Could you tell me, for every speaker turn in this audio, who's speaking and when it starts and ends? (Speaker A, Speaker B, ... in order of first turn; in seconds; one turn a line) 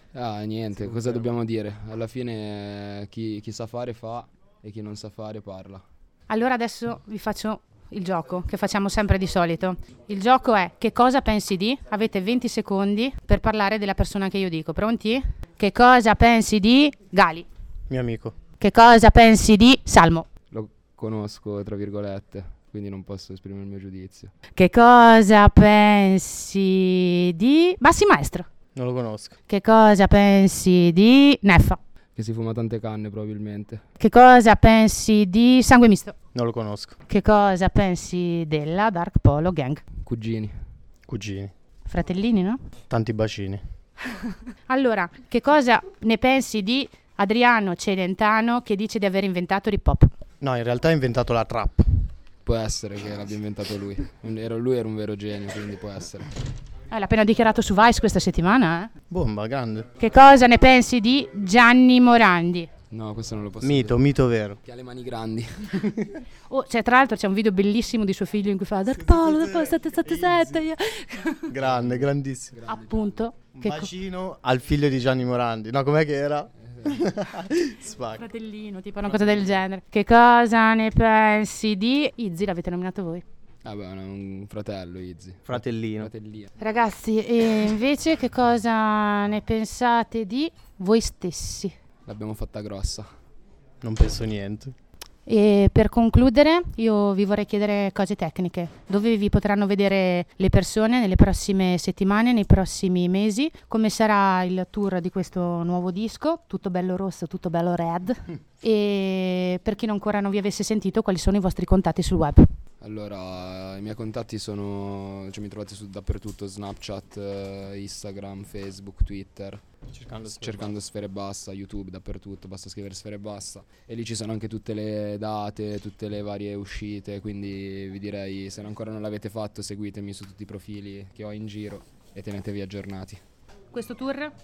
Speaker A: 0.1-5.8
Speaker B: 6.3-17.5
Speaker C: 17.9-18.4
Speaker B: 18.6-20.3
Speaker A: 20.5-24.3
Speaker B: 24.6-28.5
Speaker C: 28.8-29.4
Speaker B: 29.5-31.8
Speaker A: 32.2-33.8
Speaker B: 34.0-36.1
Speaker C: 36.3-37.0
Speaker B: 37.1-39.8
Speaker A: 40.0-40.5
Speaker C: 41.1-41.5
Speaker B: 41.9-42.6
Speaker C: 42.9-43.6
Speaker B: 44.7-50.1
Speaker C: 50.4-52.1
Speaker A: 52.5-56.3
Speaker B: 56.9-58.9
Speaker C: 59.1-59.9
Speaker B: 60.0-62.7
Speaker A: 62.9-64.0
Speaker C: 63.6-64.6
Speaker A: 64.6-66.0
Speaker C: 65.8-66.1
Speaker B: 66.5-71.5
Speaker C: 69.0-70.6
Speaker C: 71.5-72.6
Speaker A: 71.6-73.2
Speaker B: 72.7-73.9
Speaker C: 73.6-78.2
Speaker A: 76.7-77.0
Speaker B: 78.2-83.2
Speaker A: 83.6-86.5
Speaker C: 85.5-86.1
Speaker B: 86.6-91.7
Speaker A: 92.1-93.1
Speaker C: 93.8-94.8
Speaker B: 95.3-112.5
Speaker A: 112.8-119.6
Speaker C: 119.9-120.7
Speaker A: 120.3-133.2
Speaker B: 133.7-134.3